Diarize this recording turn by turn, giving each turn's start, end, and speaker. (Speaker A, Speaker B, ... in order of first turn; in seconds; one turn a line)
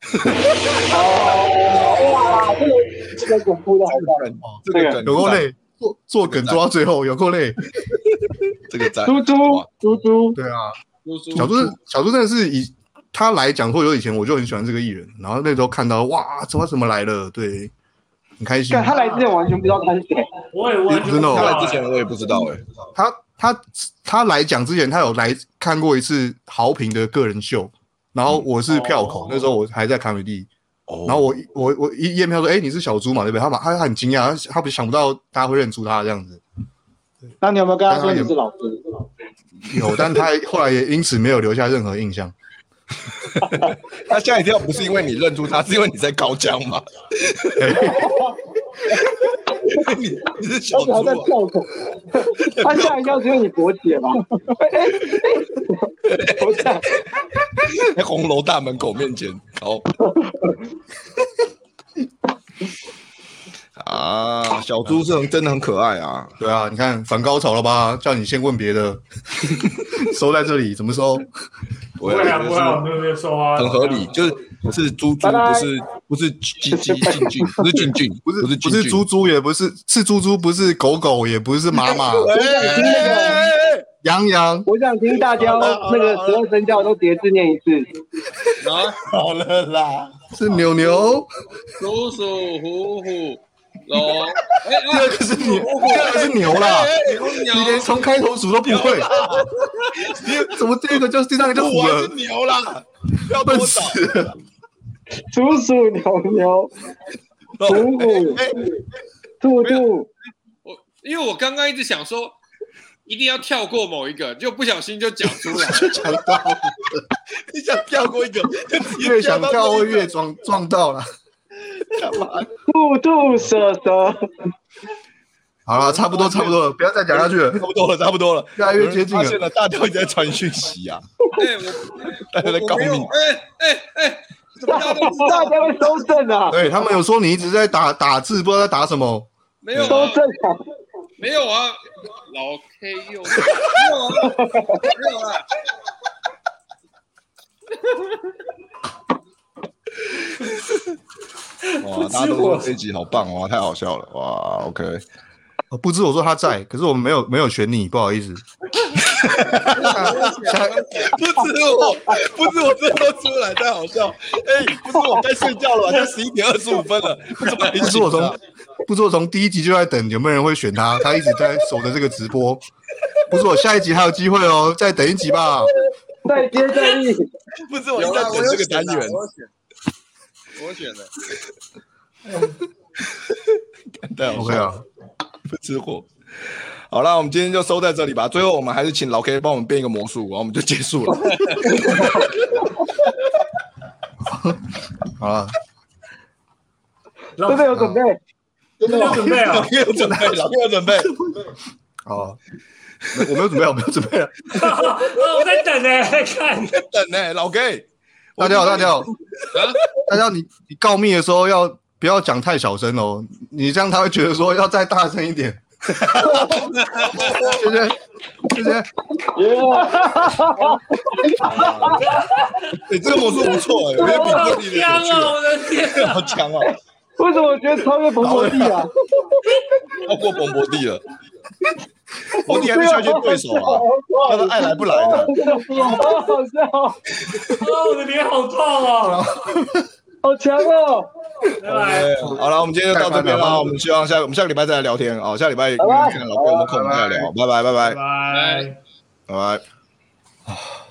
Speaker A: 0.2-0.8
Speaker B: 0.9-2.6
Speaker C: 0.9-4.2
Speaker A: 3.9-5.5
Speaker D: 4.4-7.6
Speaker B: 4.7-5.0
Speaker A: 6.3-6.6
Speaker A: 7.8-9.7
Speaker B: 9.0-10.3
Speaker D: 10.3-10.8
Speaker E: 11.0-11.7
Speaker D: 11.3-17.7
Speaker D: 18.4-19.0
Speaker B: 18.7-20.3
Speaker F: 20.5-21.9
Speaker D: 20.9-21.6
Speaker A: 21.3-22.6
Speaker D: 22.9-30.5
Speaker F: 28.7-29.4
Speaker A: 30.9-31.3
Speaker D: 31.1-36.4
Speaker C: 37.4-38.8
Speaker D: 37.9-38.3
Speaker D: 39.7-42.3
Speaker A: 43.5-47.7
Speaker D: 47.5-48.1
Speaker C: 48.0-48.3
Speaker A: 49.0-51.3
Speaker B: 50.8-51.2
Speaker C: 50.8-51.6
Speaker B: 52.2-55.6
Speaker A: 52.5-53.1
Speaker A: 56.0-56.5
Speaker B: 56.4-56.9
Speaker A: 57.6-59.9
Speaker A: 63.8-66.3
Speaker D: 66.4-69.0
Speaker D: 69.9-71.3
Speaker A: 72.0-72.8
Speaker F: 72.0-74.1
Speaker A: 73.5-79.0
Speaker B: 75.2-75.7
Speaker B: 76.7-77.7
Speaker D: 78.2-82.3
Speaker A: 81.8-83.8
Speaker B: 82.3-83.4
Speaker C: 82.6-83.3
Speaker D: 84.0-84.7
Speaker B: 84.7-87.9
Speaker A: 85.3-86.4
Speaker E: 88.6-89.0
Speaker A: 89.0-90.3
Speaker D: 90.3-91.3
Speaker E: 91.8-97.9
Speaker D: 94.8-96.9
Speaker A: 95.8-97.2
Speaker D: 97.5-99.1
Speaker E: 98.7-100.1
Speaker A: 98.8-99.5
Speaker A: 100.0-100.6
Speaker D: 100.3-102.1
Speaker A: 101.5-104.0
Speaker D: 103.3-104.3
Speaker B: 105.3-106.7
Speaker A: 107.6-108.6
Speaker B: 107.7-108.4
Speaker C: 107.7-108.4
Speaker B: 109.4-110.1
Speaker E: 110.6-112.4
Speaker E: 113.0-116.0
Speaker D: 115.6-117.0
Speaker A: 117.3-120.1
Speaker D: 118.9-121.0
Speaker A: 121.8-122.5
Speaker B: 122.7-124.2
Speaker D: 125.7-127.7
Speaker A: 125.7-126.6
Speaker A: 127.1-131.0
Speaker D: 128.6-129.4
Speaker E: 131.3-135.8
Speaker A: 132.3-133.1
Speaker B: 134.7-136.6
Speaker C: 134.8-135.5
Speaker D: 136.5-140.1
Speaker E: 139.6-140.2
Speaker B: 139.8-140.6
Speaker E: 141.2-141.8
Speaker E: 142.3-145.5
Speaker B: 144.2-144.9
Speaker F: 151.6-152.7
Speaker A: 151.8-155.0
Speaker D: 155.7-158.4
Speaker A: 159.0-160.2
Speaker E: 159.7-161.2
Speaker D: 159.8-160.8
Speaker A: 161.0-168.3
Speaker D: 167.7-172.7
Speaker D: 173.3-175.7
Speaker B: 176.2-177.3
Speaker C: 176.3-176.9
Speaker A: 177.7-179.2
Speaker E: 177.9-179.5
Speaker E: 180.6-181.1
Speaker A: 183.1-184.7
Speaker D: 184.3-184.8
Speaker A: 185.5-192.7
Speaker B: 191.7-192.2
Speaker D: 194.3-194.6
Speaker D: 195.2-195.5
Speaker F: 197.4-197.7
Speaker B: 197.5-198.2
Speaker D: 197.7-198.0
Speaker F: 198.8-199.7
Speaker A: 199.3-201.1
Speaker D: 199.9-201.5
Speaker D: 202.0-202.4
Speaker D: 203.1-204.8
Speaker F: 204.5-206.8
Speaker A: 206.7-209.1
Speaker D: 208.4-209.1
Speaker E: 209.5-209.8
Speaker A: 209.8-210.0
Speaker D: 210.1-216.5
Speaker A: 216.1-216.6
Speaker E: 216.7-217.6
Speaker D: 217.2-218.9
Speaker B: 219.3-222.0
Speaker C: 219.4-221.9
Speaker A: 221.4-222.1
Speaker A: 222.8-226.7
Speaker F: 224.0-226.4
Speaker C: 224.0-224.4
Speaker B: 224.0-224.3
Speaker B: 227.2-228.9
Speaker A: 228.2-228.8
Speaker A: 230.0-231.0
Speaker B: 232.4-236.9
Speaker A: 232.4-235.3
Speaker C: 232.6-236.7
Speaker F: 237.5-239.2
Speaker D: 239.1-239.8
Speaker B: 240.2-241.1
Speaker F: 241.6-242.4
Speaker A: 241.7-248.0
Speaker D: 242.9-243.8
Speaker B: 245.8-246.6
Speaker D: 246.6-247.3
Speaker F: 247.8-248.8
Speaker E: 248.3-248.7
Speaker A: 249.3-249.6